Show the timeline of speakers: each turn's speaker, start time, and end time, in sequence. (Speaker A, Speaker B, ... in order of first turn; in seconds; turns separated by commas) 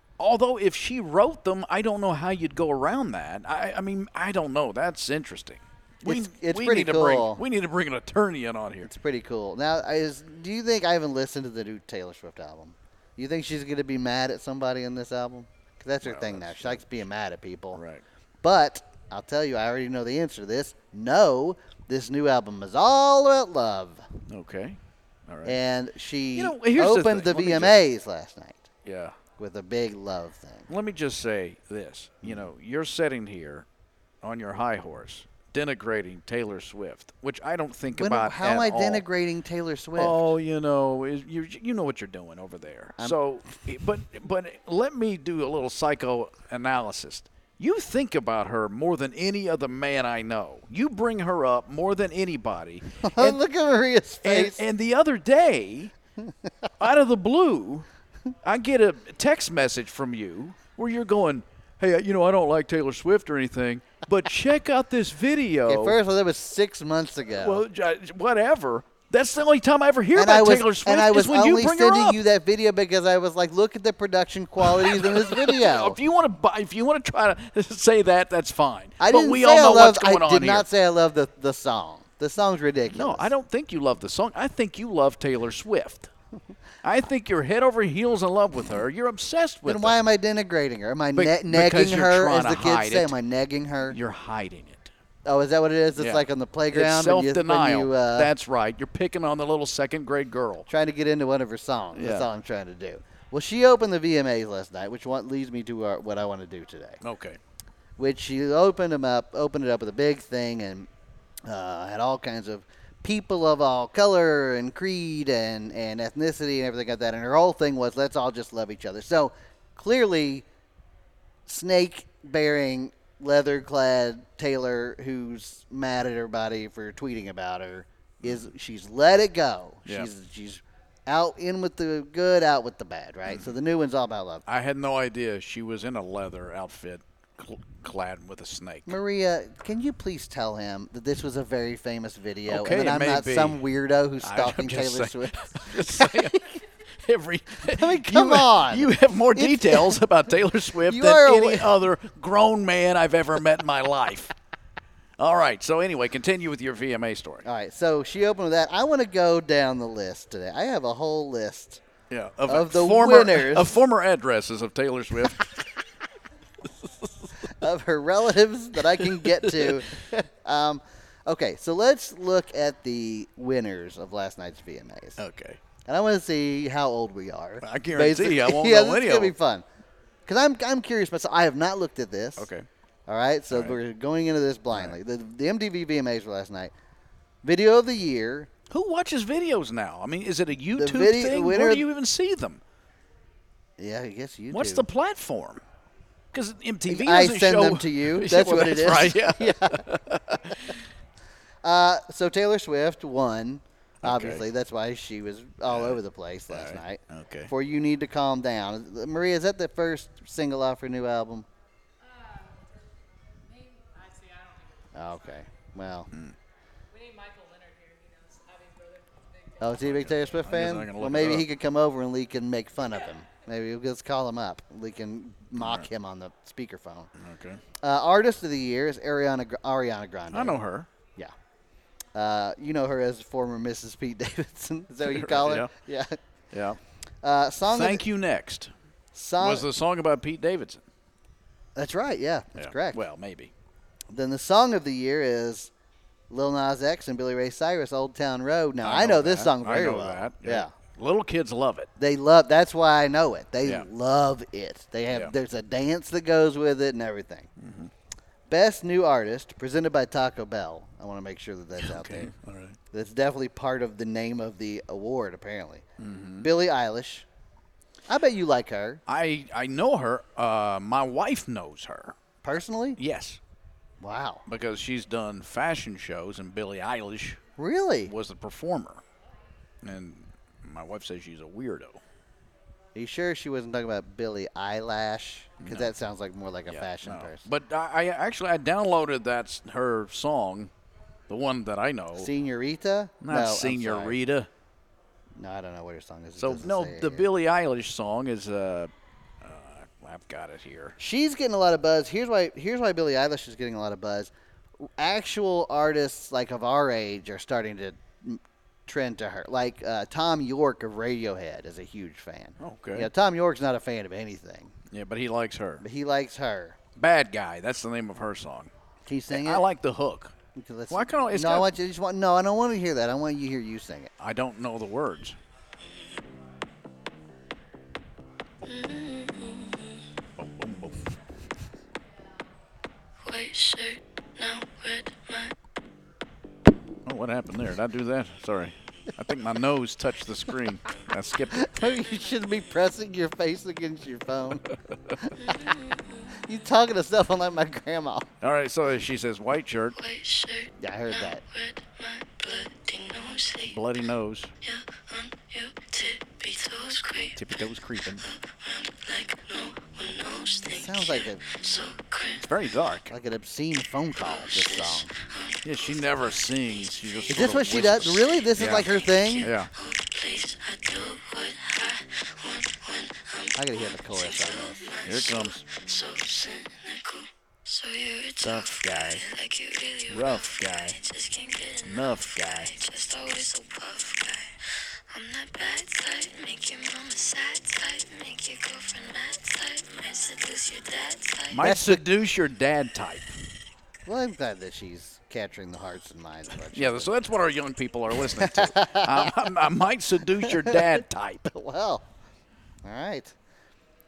Speaker A: 0.2-8.9, Speaker B: 6.0-7.4, Speaker B: 8.8-17.8, Speaker A: 16.0-17.0, Speaker A: 17.7-18.0, Speaker B: 18.4-24.1, Speaker A: 24.3-25.6, Speaker B: 25.4-28.7, Speaker A: 26.4-27.8, Speaker A: 28.9-29.2, Speaker B: 29.4-30.7, Speaker A: 30.7-33.7, Speaker A: 34.2-39.0, Speaker B: 37.9-40.3, Speaker A: 40.0-53.4, Speaker B: 53.0-54.6, Speaker A: 54.2-55.9, Speaker B: 56.2-56.5, Speaker A: 56.8-57.9, Speaker A: 58.4-66.0, Speaker B: 65.7-67.6, Speaker A: 67.4-72.2, Speaker B: 70.2-76.0, Speaker A: 74.6-80.7, Speaker B: 79.0-83.3, Speaker A: 82.9-86.1, Speaker A: 86.8-90.0, Speaker B: 89.7-94.0, Speaker A: 91.1-93.1, Speaker A: 93.9-94.9, Speaker B: 95.2-98.3, Speaker A: 96.0-100.7, Speaker B: 100.7-107.0, Speaker A: 101.9-102.3, Speaker A: 107.0-107.4, Speaker B: 108.0-110.9, Speaker B: 111.5-120.5, Speaker B: 121.5-134.4, Speaker A: 134.5-139.0, Speaker B: 138.9-146.4, Speaker A: 142.5-143.7, Speaker A: 144.2-154.3, Speaker B: 147.6-150.0, Speaker B: 150.8-151.8, Speaker A: 155.2-157.4, Speaker B: 157.4-161.8, Speaker A: 162.1-165.5, Speaker B: 162.5-163.8, Speaker B: 167.5-175.2, Speaker A: 169.0-169.8, Speaker A: 175.2-175.6, Speaker B: 175.8-179.7, Speaker A: 177.6-179.3, Speaker B: 180.3-182.5, Speaker A: 182.4-182.7, Speaker B: 183.1-186.7, Speaker A: 183.5-183.8, Speaker A: 184.7-185.0, Speaker B: 187.4-188.5, Speaker A: 188.7-192.6, Speaker B: 190.8-191.9, Speaker B: 193.8-194.9, Speaker A: 194.5-195.6, Speaker A: 196.3-200.8, Speaker B: 196.9-199.9, Speaker B: 201.6-211.5, Speaker A: 204.0-204.5, Speaker A: 205.7-207.5, Speaker C: 212.0-215.4, Speaker B: 214.9-216.1, Speaker A: 216.1-216.3, Speaker C: 216.9-220.1, Speaker B: 219.6-227.1, Speaker A: 219.8-221.5, Speaker A: 225.6-225.9, Speaker A: 227.2-227.6, Speaker B: 227.8-230.6, Speaker A: 230.3-230.9, Speaker B: 232.2-236.2, Speaker A: 235.0-235.7, Speaker A: 236.5-236.8, Speaker B: 237.2-238.0, Speaker A: 237.7-238.7, Speaker B: 239.1-239.7, Speaker A: 239.4-240.9, Speaker B: 241.8-243.0, Speaker A: 242.6-243.5, Speaker B: 244.1-245.7, Speaker B: 246.3-250.7, Speaker A: 248.8-251.9, Speaker B: 252.0-257.5, Speaker A: 257.6-257.9, Speaker B: 258.5-262.3, Speaker A: 261.8-262.8, Speaker B: 262.9-265.8, Speaker A: 266.0-266.5, Speaker B: 266.4-267.3, Speaker B: 268.1-269.0, Speaker A: 269.1-272.2, Speaker B: 272.4-273.0, Speaker A: 273.0-273.4, Speaker B: 274.0-274.4, Speaker A: 274.5-277.4, Speaker B: 277.6-278.1, Speaker A: 278.1-279.0, Speaker A: 279.8-282.0, Speaker B: 282.9-287.5, Speaker A: 285.6-285.9, Speaker A: 286.7-290.7, Speaker A: 291.3-292.3, Speaker B: 292.2-294.2, Speaker A: 293.2-294.5, Speaker B: 295.4-297.3, Speaker A: 296.4-298.9, Speaker A: 299.4-301.0, Speaker B: 301.0-314.7, Speaker A: 312.6-313.1, Speaker A: 314.9-315.8, Speaker B: 315.8-316.8, Speaker A: 317.0-318.7, Speaker B: 319.0-319.7, Speaker A: 319.3-320.4, Speaker B: 320.6-324.1, Speaker A: 320.9-321.7, Speaker A: 324.2-325.4, Speaker D: 328.6-330.1, Speaker A: 330.4-331.1, Speaker D: 333.2-335.5, Speaker A: 337.1-341.7, Speaker B: 341.5-344.7, Speaker A: 344.9-345.2, Speaker B: 345.2-345.6, Speaker D: 345.4-346.4, Speaker B: 346.4-348.3, Speaker A: 348.4-350.0, Speaker D: 350.0-353.9, Speaker B: 350.8-351.4, Speaker A: 353.6-354.5, Speaker D: 354.6-357.5, Speaker A: 357.4-358.2, Speaker D: 358.2-362.5, Speaker B: 360.7-361.4, Speaker A: 362.4-363.1, Speaker B: 363.1-365.1, Speaker D: 364.2-366.0, Speaker A: 365.6-368.9, Speaker D: 366.7-367.5, Speaker B: 367.3-369.5, Speaker D: 368.0-391.6, Speaker A: 369.4-369.7, Speaker B: 373.6-374.8, Speaker A: 375.0-375.7, Speaker A: 378.4-379.2, Speaker A: 380.1-381.0, Speaker A: 381.8-382.7, Speaker A: 391.5-393.4, Speaker B: 391.6-392.0, Speaker B: 394.1-397.1, Speaker A: 396.7-401.5, Speaker B: 398.3-399.5, Speaker B: 400.4-401.0, Speaker B: 401.5-402.1, Speaker B: 402.8-403.3